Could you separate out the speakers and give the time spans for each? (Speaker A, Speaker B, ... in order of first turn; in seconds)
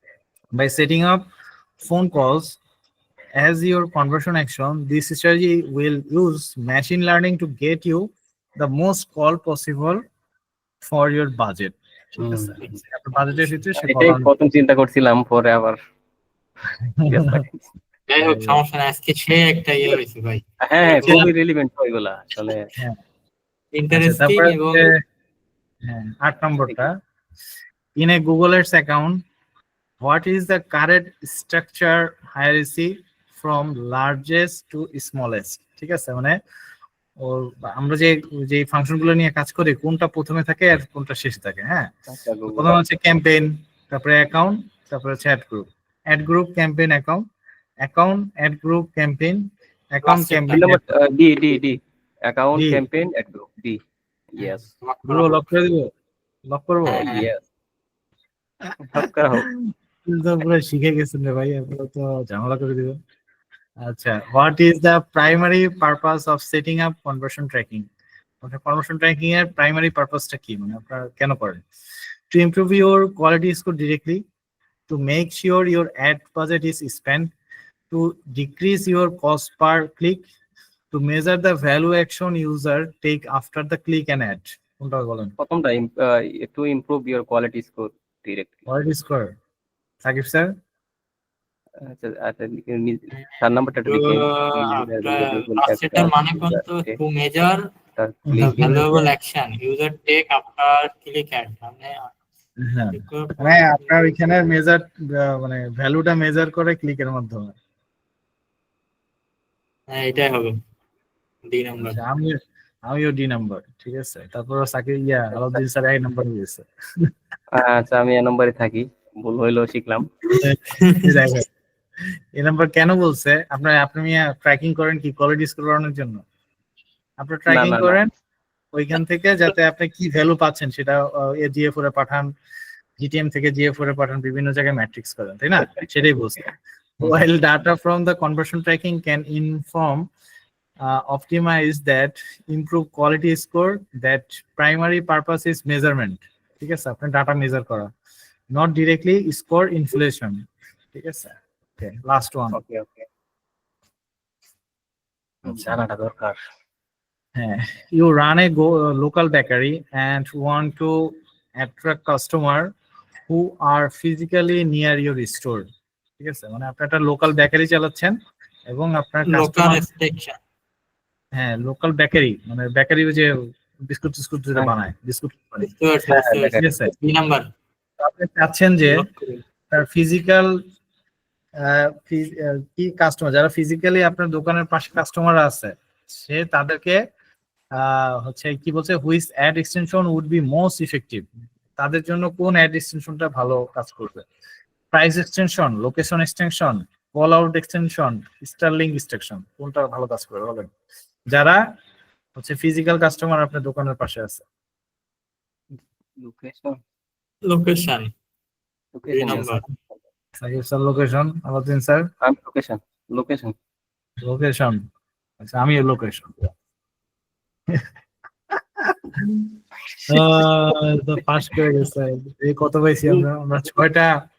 Speaker A: 0.6-1.2, 1.8-2.6, 3.4-10.0, 10.8-14.3, 17.0-17.4, 18.2-18.6, 23.9-25.0, 25.9-26.9, 28.0-29.2, 30.0-36.4, 37.2-41.9, 42.5-47.2, 47.8-50.9, 52.5-52.8, 55.1-55.9, 56.5-57.1, 59.4-63.0, 63.8-67.9, 68.4-71.6, 72.3-74.2, 74.9-77.3, 77.9-80.2, 80.9-85.3, 88.7-89.3, 90.0-90.5, 98.3-99.0, 102.6-107.5, 111.8-117.1, 120.3-121.5, 122.3-126.2, 127.2-128.1, 128.7-132.3, 133.0-140.1, 140.8-147.9, 148.5-152.6, 155.5-155.8, 157.4-162.7, 163.3-165.7, 166.2-168.2, 168.7-169.8, 171.3-173.3, 173.9-176.9, 178.0-179.0, 179.7-180.6, 181.6-187.0, 187.8-191.3, 191.8-194.3, 194.9-200.7, 201.3-201.6, 202.4-204.4, 210.4-212.1, 214.2-214.8, 215.4-216.5, 218.8-219.5, 220.1-224.2
Speaker B: 12.2-12.7, 13.8-15.8, 17.1-17.7, 20.6-22.7, 42.1-42.8, 50.5-53.8, 54.3-54.7, 57.0-57.4, 58.8-59.5, 85.4-88.7, 91.8-97.0, 98.0-98.9, 115.3-115.6, 117.5-120.1, 127.5-128.0, 152.5-153.1, 155.4-156.4, 176.3-176.7, 206.2-206.8, 208.9-209.6, 212.2-213.5
Speaker C: 18.1-21.3, 23.7-24.9, 50.0-50.7, 54.4-55.5, 56.9-57.3, 93.2-97.6, 98.4-102.1, 102.9-104.5, 109.9-110.5, 111.5-112.0, 120.8-121.2, 169.2-170.4, 175.6-177.5, 178.9-179.4, 207.4-208.1, 209.1-209.6